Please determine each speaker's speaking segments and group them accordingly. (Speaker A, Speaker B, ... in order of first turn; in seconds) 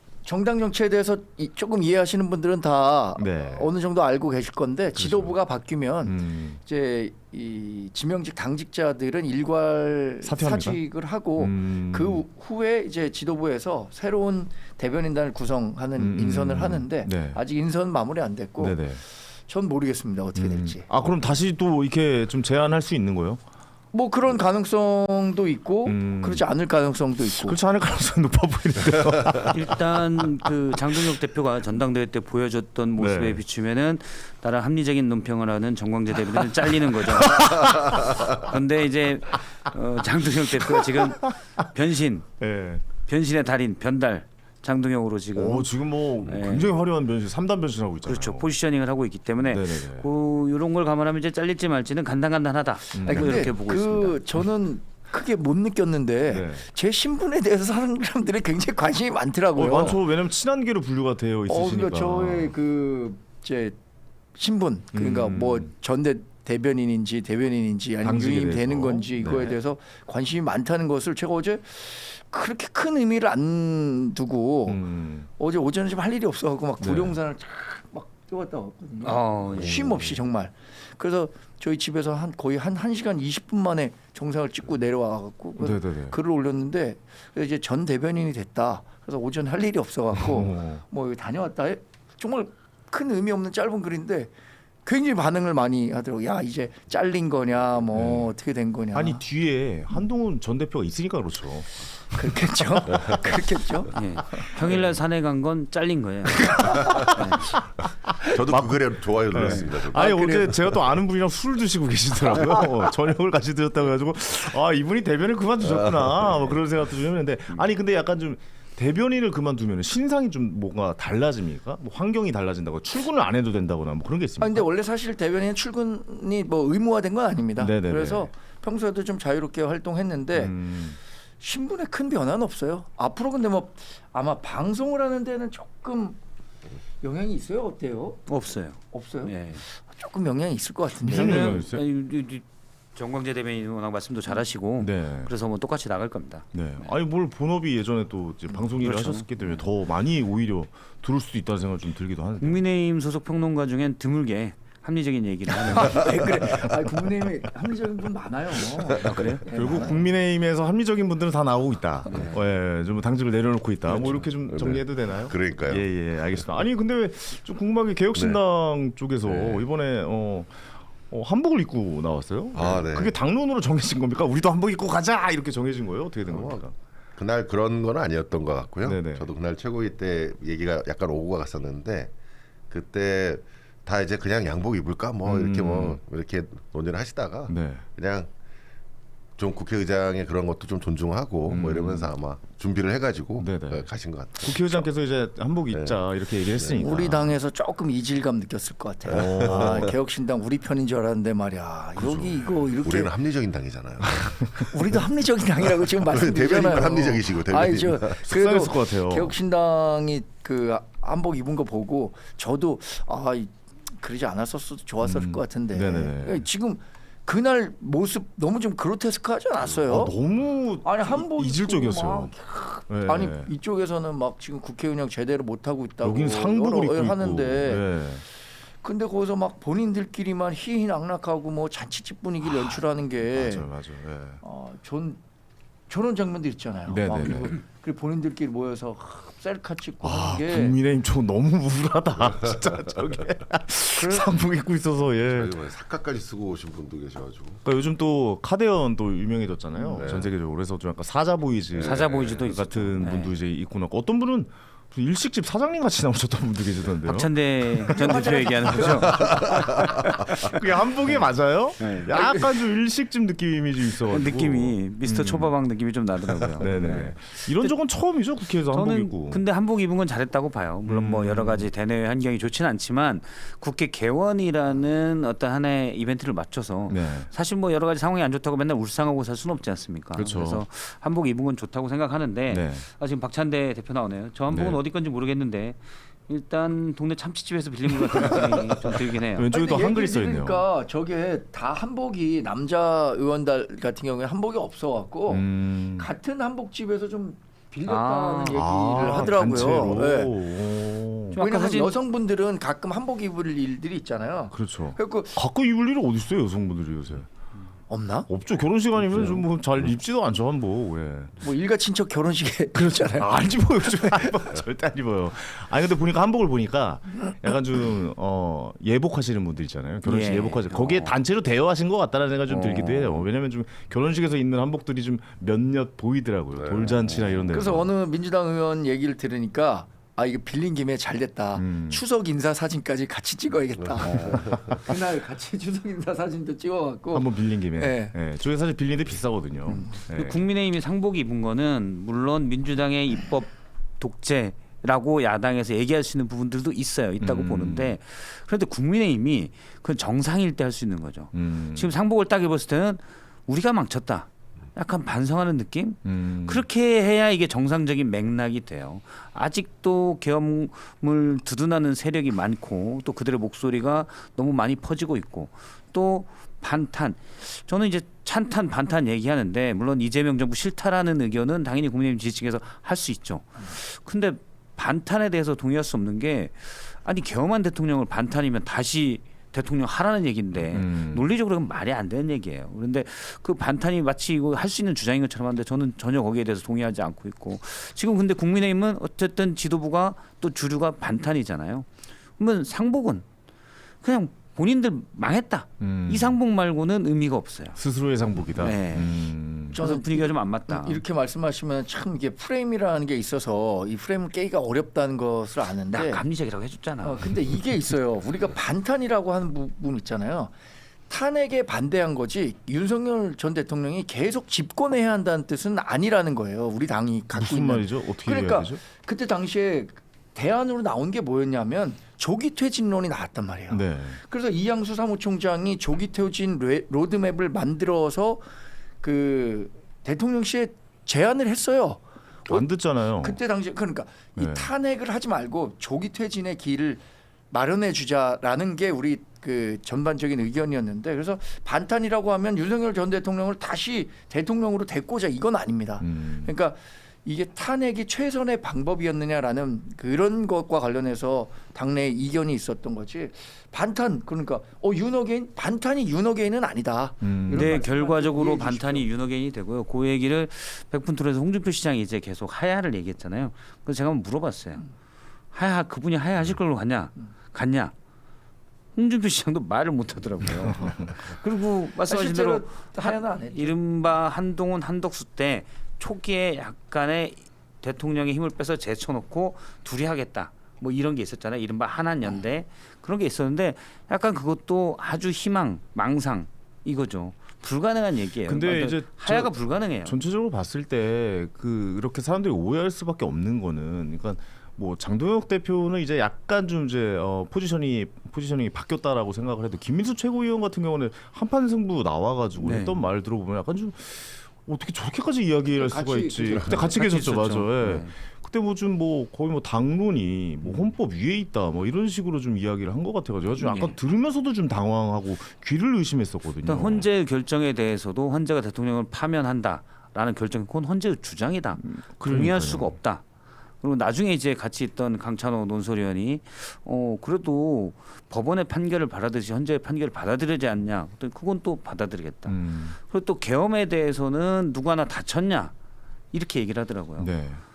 Speaker A: 0.2-20.9, 23.9-27.6, 53.0-60.0, 61.5-63.8, 64.3-74.8, 75.4-94.3, 94.8-99.2, 102.2-104.0, 106.4-107.2, 109.9-110.7, 124.4-130.6, 131.4-136.2, 137.0-138.2, 138.9-141.6, 155.6-160.1, 196.8-203.1, 204.7-220.1, 220.8-227.9, 228.8-233.7, 234.4-235.2, 235.9-240.8, 244.0-244.3, 257.9-259.9, 262.1-262.5, 289.5-300.4, 301.4-305.4, 307.9-308.3, 311.4-314.4, 327.5-338.1, 399.8-406.2, 407.0-410.5, 411.1-428.5, 429.0-432.7, 433.2-459.1, 472.1-473.8, 505.7-506.9
Speaker B: 3.2-3.7, 5.0-5.3, 6.1-6.6, 10.2-10.8, 11.4-12.2, 16.0-17.4, 18.6-19.0, 20.4-23.4, 25.9-26.4, 27.3-29.7, 33.0-33.4, 37.0-38.1, 40.6-41.3, 42.4-42.8, 45.4-48.5, 49.4-50.1, 52.9-53.5, 56.3-56.7, 59.5-62.5, 64.9-65.7, 68.0-69.6, 74.7-75.3, 76.8-77.2, 79.6-80.2, 85.6-86.2, 90.2-90.8, 98.0-98.3, 98.9-103.2, 104.4-104.8, 106.9-107.2, 108.2-124.7, 127.6-128.3, 130.3-131.0, 141.1-141.8, 144.8-145.3, 146.5-152.6, 159.1-176.8, 178.8-179.3, 185.2-186.0, 187.5-187.8, 191.5-192.1, 193.4-197.4, 199.1-199.9, 202.0-202.3, 208.2-209.3, 215.0-216.5, 219.7-222.3, 222.9-223.5, 226.0-228.2, 232.4-234.4, 236.9-237.6, 240.0-245.6, 247.6-258.0, 260.4-265.5, 266.6-269.4, 270.9-271.7, 276.9-277.3, 280.1-280.6, 282.5-282.9, 284.5-284.8, 289.3-290.6, 295.3-296.1, 298.5-301.4, 304.5-307.3, 308.3-311.4, 312.8-327.9, 331.6-332.0, 337.1-340.5, 347.2-348.0, 351.3-351.9, 356.1-356.6, 380.7-381.2, 395.8-396.4, 397.8-399.8, 417.3-418.8, 423.7-424.2, 432.5-433.4, 434.4-434.7, 446.0-446.5, 457.2-457.8, 488.5-489.5, 490.0-517.1, 521.8-522.9, 532.5-533.0, 537.2-537.6
Speaker C: 29.5-42.3, 43.1-46.8, 48.1-54.3, 79.0-79.9, 103.9-107.6, 138.3-139.6, 141.1-142.4, 143.0-146.9, 148.6-149.6, 152.4-156.7, 159.0-159.8, 162.1-162.4, 251.8-253.3, 257.1-260.4, 261.8-262.1, 264.1-267.8, 268.7-289.5, 297.9-299.4, 301.4-302.0, 320.0-321.1, 322.5-323.2, 327.1-327.4, 339.7-391.9, 392.4-393.2, 394.0-397.8, 398.6-399.2, 399.7-401.0, 405.9-407.4, 457.5-464.9, 465.5-467.9, 468.9-490.1, 502.6-503.0, 506.8-508.1, 513.6-514.0, 516.7-523.2, 523.8-535.7, 536.3-537.3
Speaker D: 102.9-103.2, 108.2-110.5, 163.9-165.9, 168.1-168.4, 169.2-169.6, 172.6-173.1, 176.3-176.6, 177.2-182.1, 182.7-188.3, 189.4-194.6, 199.1-199.8, 202.8-204.7, 205.8-208.2, 245.3-247.6, 249.9-250.3, 251.7-252.4, 326.6-327.0, 333.8-334.8